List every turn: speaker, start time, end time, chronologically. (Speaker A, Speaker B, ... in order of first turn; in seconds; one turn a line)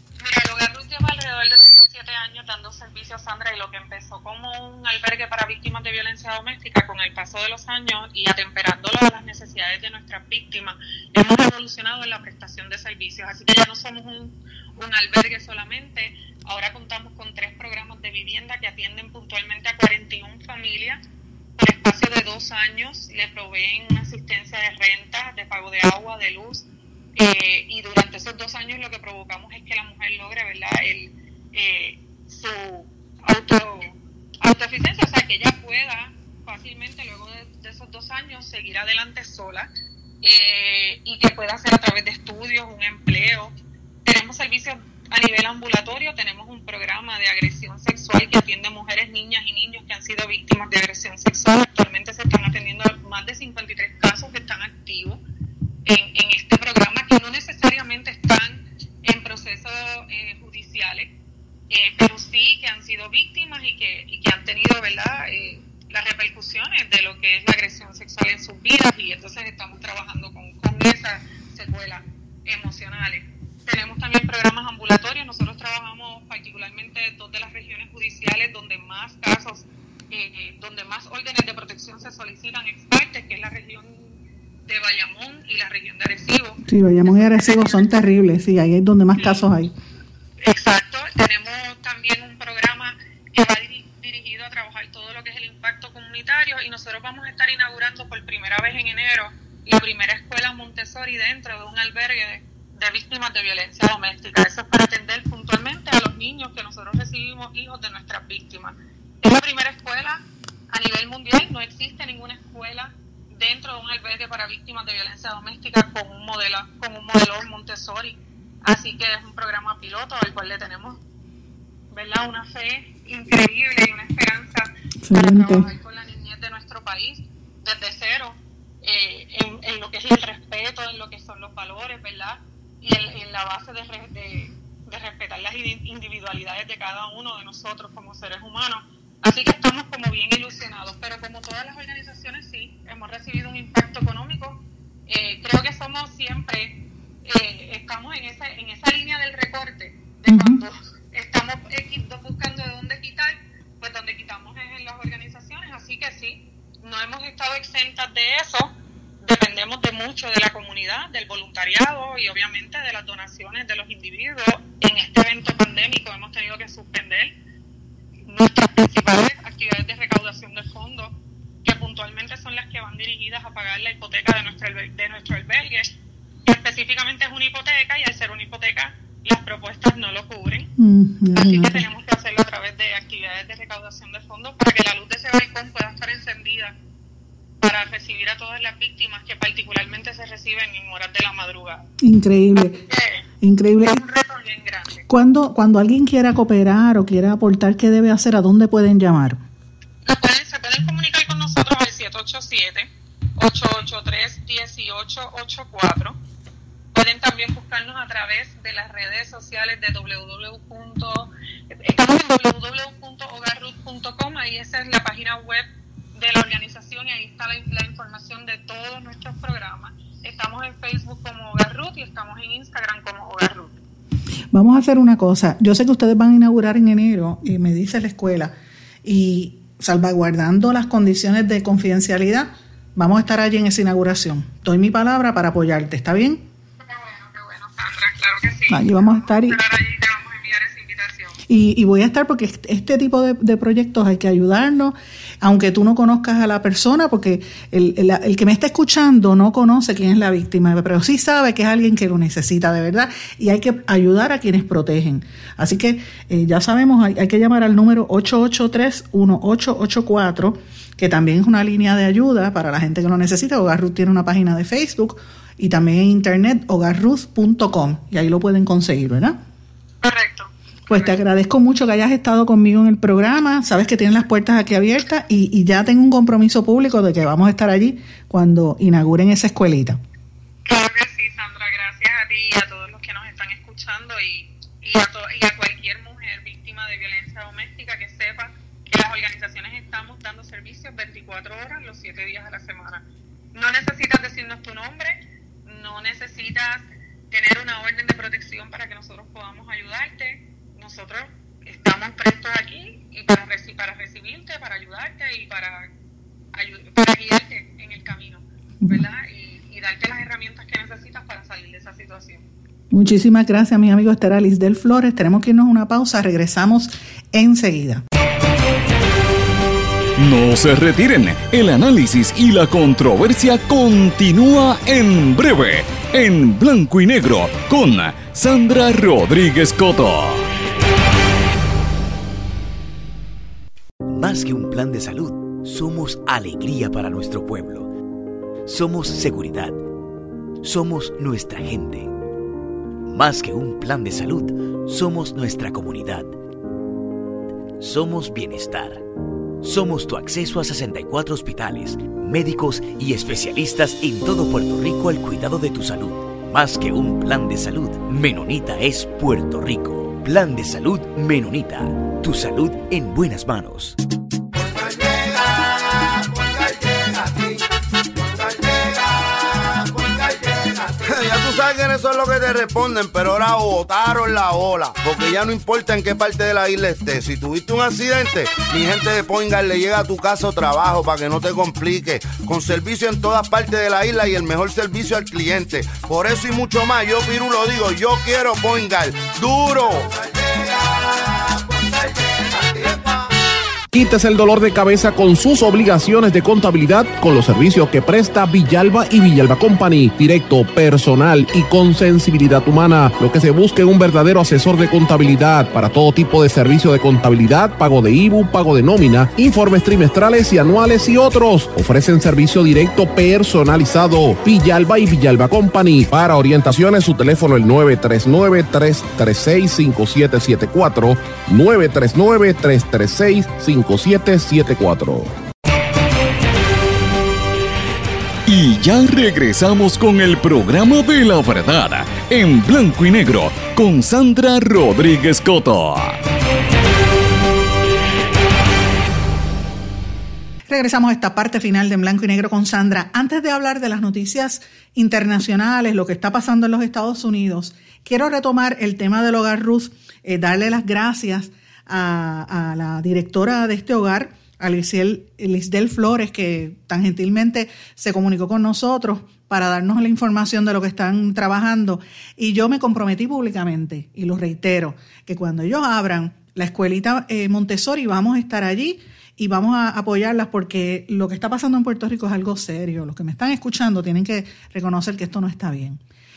Speaker A: 0.2-21.0
Speaker A: 21.6-26.7
Speaker A: 27.2-39.7
Speaker A: 40.2-43.5
Speaker A: 44.0-55.2
Speaker A: 55.9-61.1
Speaker A: 61.7-87.8
Speaker B: 86.7-89.7
Speaker A: 89.2-89.5
Speaker A: 90.4-121.0
Speaker A: 121.9-167.3
Speaker B: 125.0-125.7
Speaker B: 150.3-150.6
Speaker A: 168.3-180.7
Speaker B: 180.8-181.8
Speaker A: 181.3-186.8
Speaker A: 187.6-191.9
Speaker B: 192.0-192.8
Speaker A: 192.6-193.2
Speaker B: 193.4-194.0
Speaker A: 193.8-195.1
Speaker B: 195.1-199.4
Speaker A: 200.1-206.2
Speaker A: 206.9-223.7
Speaker B: 224.5-236.4
Speaker A: 236.9-241.4
Speaker B: 238.7-239.6
Speaker B: 241.5-269.4
Speaker A: 270.0-271.2
Speaker B: 270.9-280.0
Speaker A: 280.6-305.9
Speaker A: 306.5-312.4
Speaker B: 312.9-318.0
Speaker C: 320.2-330.5
Speaker D: 334.1-337.9
Speaker D: 338.7-339.8
Speaker D: 340.6-342.1
Speaker D: 343.1-346.3
Speaker D: 347.8-349.0
Speaker D: 349.6-364.0
Speaker E: 364.5-393.3
Speaker F: 393.9-425.3
Speaker C: 428.5-436.2
Speaker B: 440.7-476.0